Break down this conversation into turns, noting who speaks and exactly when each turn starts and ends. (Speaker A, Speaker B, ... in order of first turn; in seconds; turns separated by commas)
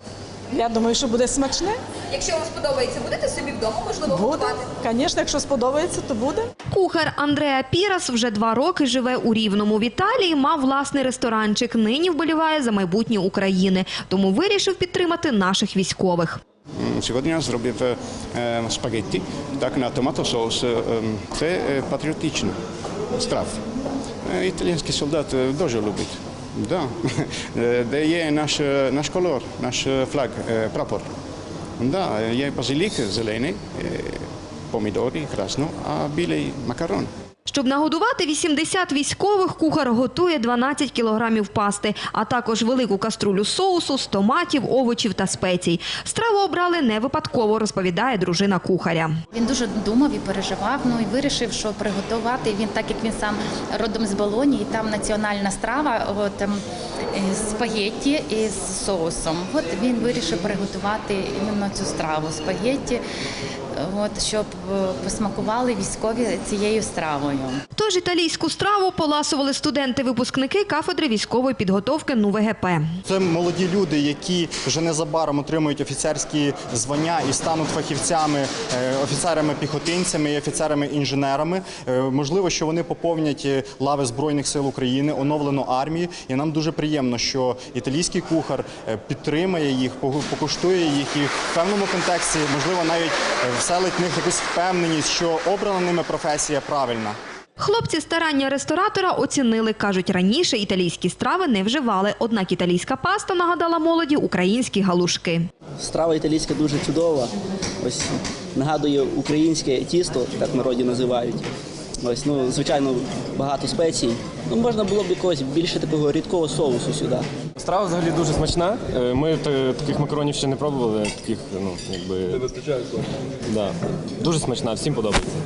Speaker A: 0.5-1.8, Speaker B: 2.1-4.7, Speaker A: 4.1-6.5, Speaker B: 6.7-16.4, Speaker C: 16.8-22.6, Speaker C: 23.1-23.6, Speaker C: 24.3-31.1, Speaker C: 31.8-37.1, Speaker B: 37.5-49.2, Speaker D: 49.3-56.6, Speaker D: 57.1-63.0, Speaker D: 63.8-67.6, Speaker B: 67.8-72.9, Speaker E: 73.1-97.2, Speaker B: 97.6-105.5, Speaker F: 105.8-111.5, Speaker F: 112.0-117.3, Speaker G: 117.6-122.5, Speaker G: 123.5-125.3